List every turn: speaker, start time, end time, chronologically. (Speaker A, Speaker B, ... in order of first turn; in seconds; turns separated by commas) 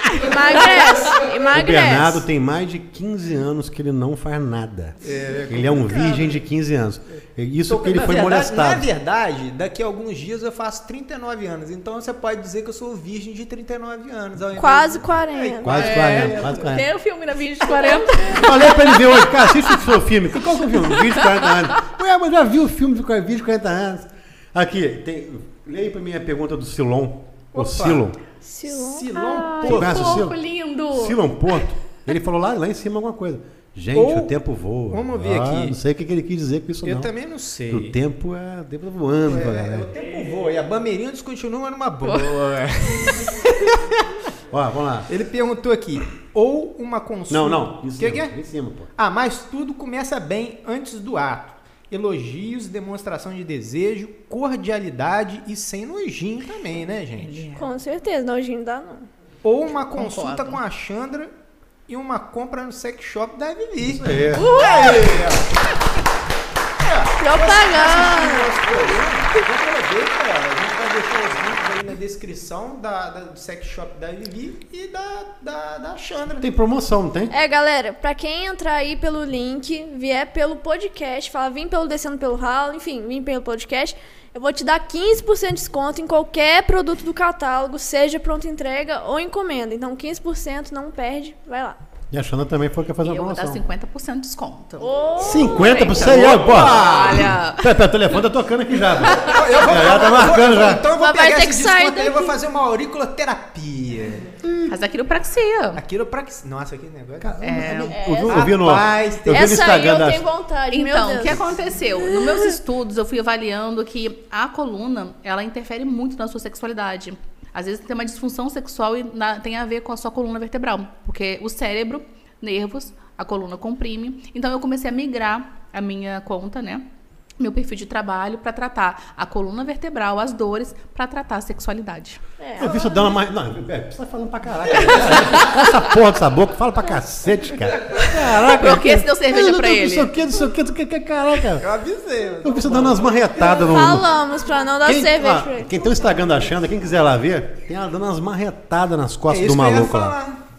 Speaker A: 0.2-2.2, Speaker B: 1.5-8.9, Speaker C: 5.0-6.4, Speaker C: 7.7-16.8, Speaker A: 14.6-15.8, Speaker B: 15.6-16.9, Speaker D: 15.8-18.9, Speaker A: 17.7-18.0, Speaker C: 17.9-18.5, Speaker B: 18.3-28.2, Speaker D: 20.8-21.4, Speaker C: 27.5-28.1, Speaker A: 28.4-29.9, Speaker C: 28.7-30.3, Speaker B: 29.6-30.4, Speaker D: 29.7-31.2, Speaker B: 30.9-37.1, Speaker C: 33.9-34.3, Speaker C: 34.9-35.8, Speaker C: 36.8-38.0, Speaker B: 37.7-39.9, Speaker C: 39.3-44.1, Speaker B: 44.5-45.1, Speaker C: 45.1-48.4, Speaker B: 47.3-48.9, Speaker C: 49.0-57.5, Speaker D: 57.2-57.7, Speaker A: 57.6-59.1, Speaker C: 59.4-61.3, Speaker D: 60.0-60.6, Speaker C: 61.9-65.5, Speaker B: 63.8-65.2, Speaker D: 64.3-65.2, Speaker C: 66.8-76.5, Speaker A: 67.2-68.9, Speaker B: 76.4-77.3, Speaker A: 77.3-91.8, Speaker B: 92.1-93.6, Speaker D: 93.0-97.7, Speaker A: 94.8-95.8, Speaker B: 95.2-100.9, Speaker C: 96.0-97.2, Speaker C: 99.2-104.3, Speaker A: 101.0-102.4, Speaker B: 104.4-104.7, Speaker D: 104.7-105.8, Speaker C: 105.8-107.4, Speaker B: 107.2-110.3, Speaker D: 107.4-108.0, Speaker A: 107.9-108.4, Speaker C: 108.3-109.8, Speaker A: 109.3-111.5, Speaker D: 110.7-126.9, Speaker D: 127.4-132.2, Speaker A: 132.4-133.1, Speaker B: 132.6-141.7, Speaker D: 138.0-140.1, Speaker C: 141.6-143.6, Speaker B: 142.4-144.1, Speaker A: 143.4-145.9, Speaker B: 144.8-150.2, Speaker C: 149.3-150.4